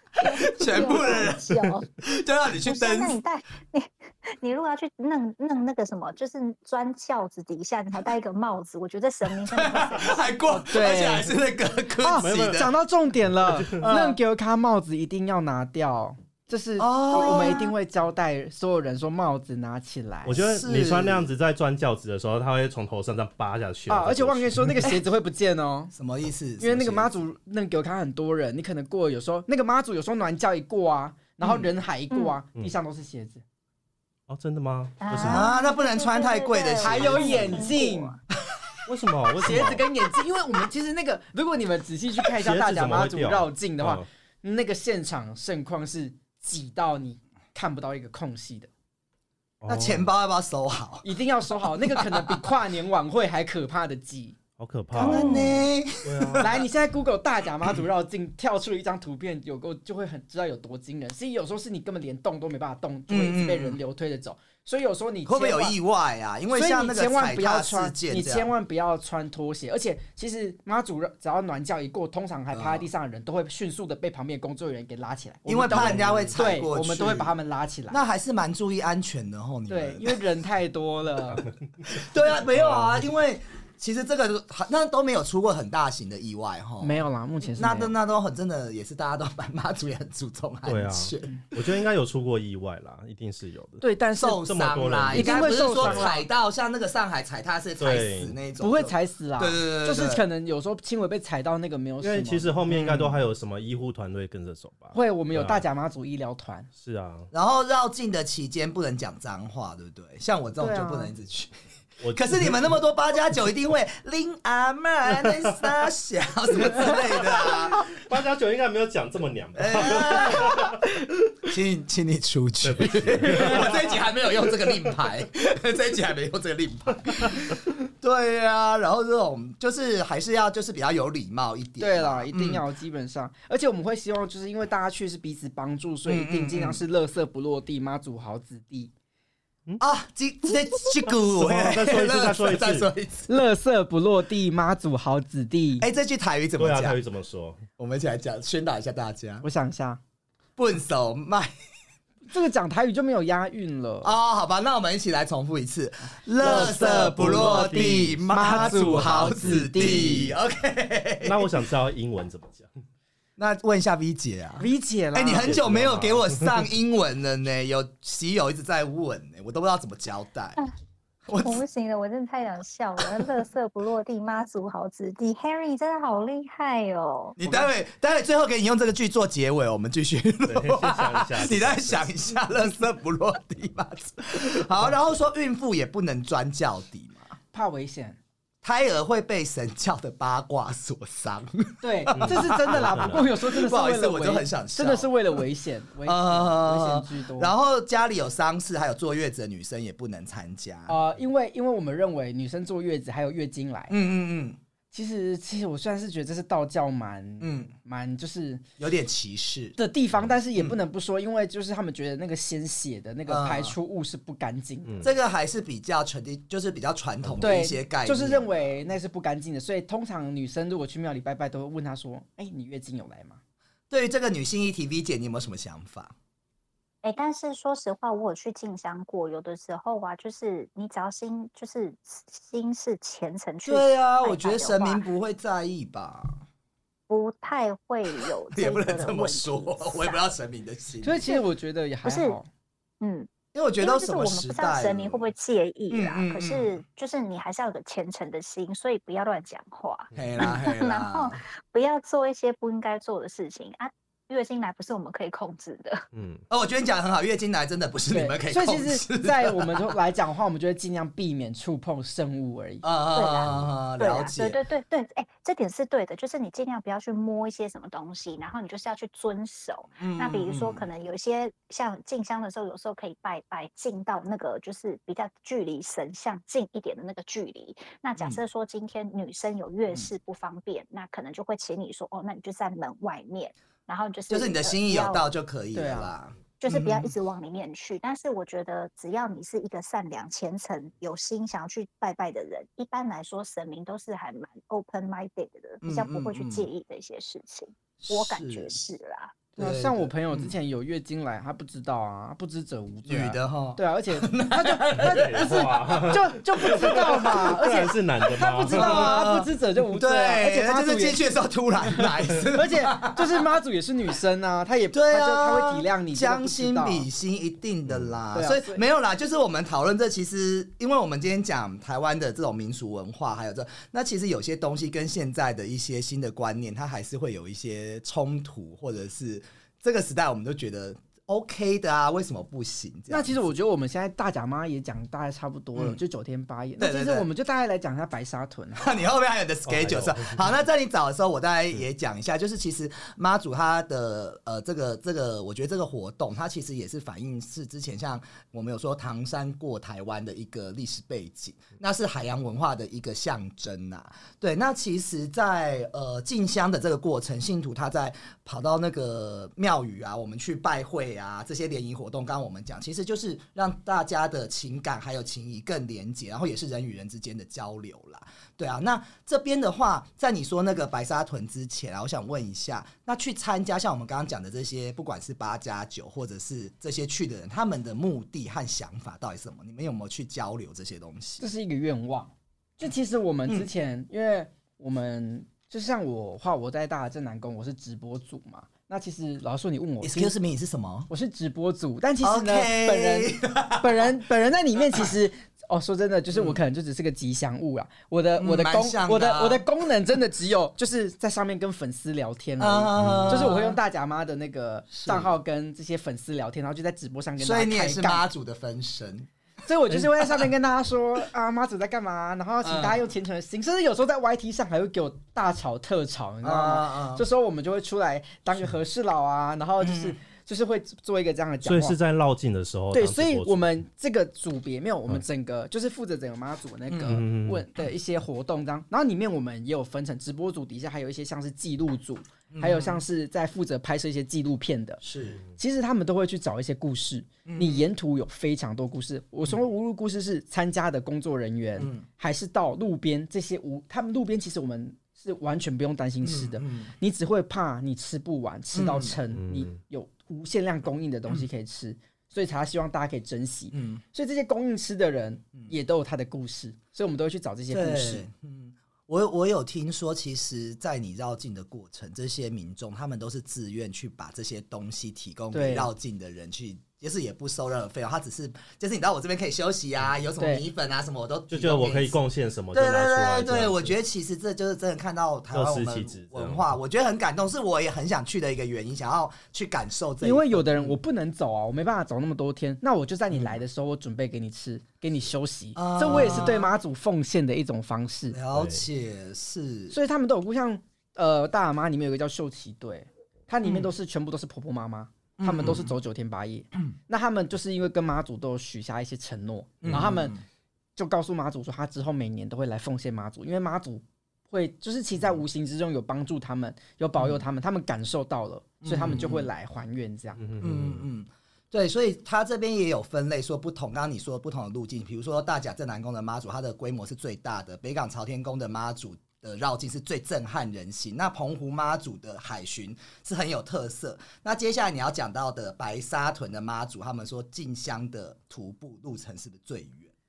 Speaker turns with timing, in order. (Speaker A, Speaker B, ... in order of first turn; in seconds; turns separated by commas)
Speaker A: 0.1-3.2, Speaker B: 0.2-1.9, Speaker B: 2.6-10.2, Speaker A: 9.3-12.7, Speaker C: 10.6-11.3, Speaker C: 12.0-20.4, Speaker D: 12.2-12.7, Speaker D: 13.4-13.9, Speaker A: 13.7-14.2, Speaker A: 16.8-17.7, Speaker B: 17.1-17.7, Speaker D: 20.2-24.9, Speaker A: 20.4-21.3, Speaker C: 23.9-25.9, Speaker A: 25.9-27.2, Speaker C: 26.6-33.4, Speaker A: 31.4-31.7, Speaker B: 32.1-32.4, Speaker D: 34.3-35.5, Speaker B: 35.0-38.2, Speaker A: 35.2-37.7, Speaker C: 36.8-38.1, Speaker D: 38.9-39.8, Speaker C: 39.4-48.7, Speaker D: 42.3-44.0, Speaker D: 49.6-50.1, Speaker A: 49.7-51.1, Speaker C: 51.0-54.4, Speaker D: 54.6-56.5, Speaker C: 54.9-55.6, Speaker A: 55.0-56.5, Speaker C: 56.4-65.8, Speaker A: 63.1-63.8, Speaker A: 65.2-68.5, Speaker C: 66.5-78.0, Speaker A: 72.5-72.8, Speaker A: 75.5-77.3, Speaker D: 75.7-76.3, Speaker A: 77.9-80.1, Speaker C: 79.7-81.4, Speaker A: 81.9-87.0, Speaker D: 82.5-83.1, Speaker C: 86.8-87.9, Speaker A: 87.6-91.4, Speaker D: 90.7-93.8, Speaker C: 93.8-94.4, Speaker A: 94.2-100.2, Speaker D: 94.4-96.1, Speaker C: 95.1-96.3, Speaker D: 97.8-98.3, Speaker C: 98.6-103.2, Speaker D: 102.0-105.6, Speaker C: 104.9-106.7, Speaker D: 106.8-107.3, Speaker A: 107.3-111.5, Speaker C: 110.6-111.1, Speaker D: 112.0-112.6, Speaker A: 112.1-117.8, Speaker D: 116.7-121.0, Speaker A: 119.6-120.6, Speaker A: 121.5-132.6, Speaker D: 122.6-124.0, Speaker C: 131.8-138.9, Speaker A: 136.1-136.8, Speaker A: 139.8-143.3, Speaker D: 141.3-142.9, Speaker C: 143.3-145.8, Speaker A: 145.8-147.0, Speaker D: 146.6-147.6, Speaker A: 147.8-149.4, Speaker C: 149.4-150.0, Speaker A: 150.6-151.5, Speaker C: 152.3-154.1, Speaker A: 154.0-161.5, Speaker C: 156.4-160.3, Speaker D: 156.4-160.2, Speaker D: 161.2-162.7, Speaker A: 163.4-170.6, Speaker C: 164.6-165.5, Speaker D: 165.3-166.6, Speaker A: 171.3-171.6, Speaker B: 171.4-177.4, Speaker A: 177.4-187.3, Speaker D: 180.5-182.3, Speaker C: 187.5-188.2, Speaker A: 188.6-195.2, Speaker C: 191.8-197.5, Speaker D: 192.2-193.2, Speaker A: 196.0-201.0, Speaker C: 200.9-203.9, Speaker A: 203.9-204.6, Speaker C: 204.9-208.6, Speaker A: 207.4-207.7, Speaker A: 208.8-209.8, Speaker C: 209.8-214.9, Speaker A: 213.3-213.7, Speaker D: 214.8-215.1, Speaker A: 215.0-218.6, Speaker C: 217.4-223.4, Speaker A: 223.9-226.1, Speaker B: 227.0-235.0, Speaker A: 233.6-236.4, Speaker B: 237.1-240.2, Speaker A: 238.5-241.4, Speaker C: 241.0-242.5, Speaker B: 242.0-242.4, Speaker B: 243.0-256.0, Speaker A: 243.5-245.3, Speaker A: 245.9-246.8, Speaker A: 250.1-251.4, Speaker D: 256.1-256.4, Speaker A: 256.5-259.9, Speaker C: 258.1-262.8, Speaker A: 262.8-264.6, Speaker B: 263.1-285.3, Speaker A: 270.0-270.9, Speaker A: 284.3-287.1, Speaker C: 285.7-286.1, Speaker B: 286.6-299.4, Speaker A: 295.8-296.7, Speaker A: 298.0-298.7, Speaker A: 299.6-300.5, Speaker C: 299.6-311.2, Speaker A: 303.1-307.5, Speaker D: 305.0-309.2, Speaker A: 308.7-313.4, Speaker C: 311.9-317.1, Speaker A: 314.9-333.4, Speaker D: 317.9-318.1, Speaker C: 318.3-318.8, Speaker C: 333.1-339.0, Speaker A: 336.8-337.2, Speaker A: 338.8-381.4, Speaker D: 339.7-340.4, Speaker C: 381.4-390.3, Speaker A: 390.0-391.1, Speaker C: 391.1-408.2, Speaker A: 392.2-394.1, Speaker A: 398.4-399.6, Speaker A: 402.6-403.8, Speaker D: 403.0-403.5, Speaker A: 404.9-405.3, Speaker A: 407.4-409.3, Speaker C: 409.6-422.0, Speaker A: 412.6-413.0, Speaker A: 416.4-417.2, Speaker A: 419.8-420.1, Speaker D: 421.6-423.6, Speaker C: 422.9-435.0, Speaker A: 426.9-427.2, Speaker D: 427.1-427.6, Speaker A: 432.5-433.0, Speaker A: 435.0-435.4, Speaker C: 435.6-458.2, Speaker A: 437.4-437.8, Speaker A: 441.8-442.0, Speaker A: 446.2-446.9, Speaker A: 448.7-449.2, Speaker D: 449.3-449.7, Speaker A: 453.7-454.0, Speaker A: 457.7-472.2, Speaker C: 465.5-465.9, Speaker C: 470.4-470.6, Speaker D: 471.5-473.9, Speaker A: 472.7-480.9, Speaker D: 475.5-476.7, Speaker C: 480.2-488.4, Speaker A: 485.7-486.7, Speaker A: 488.3-490.0, Speaker D: 488.5-488.8, Speaker C: 489.9-500.3, Speaker A: 495.4-495.9, Speaker A: 499.8-500.4, Speaker C: 500.9-510.4, Speaker A: 508.8-509.5, Speaker D: 510.4-511.0, Speaker A: 510.6-530.1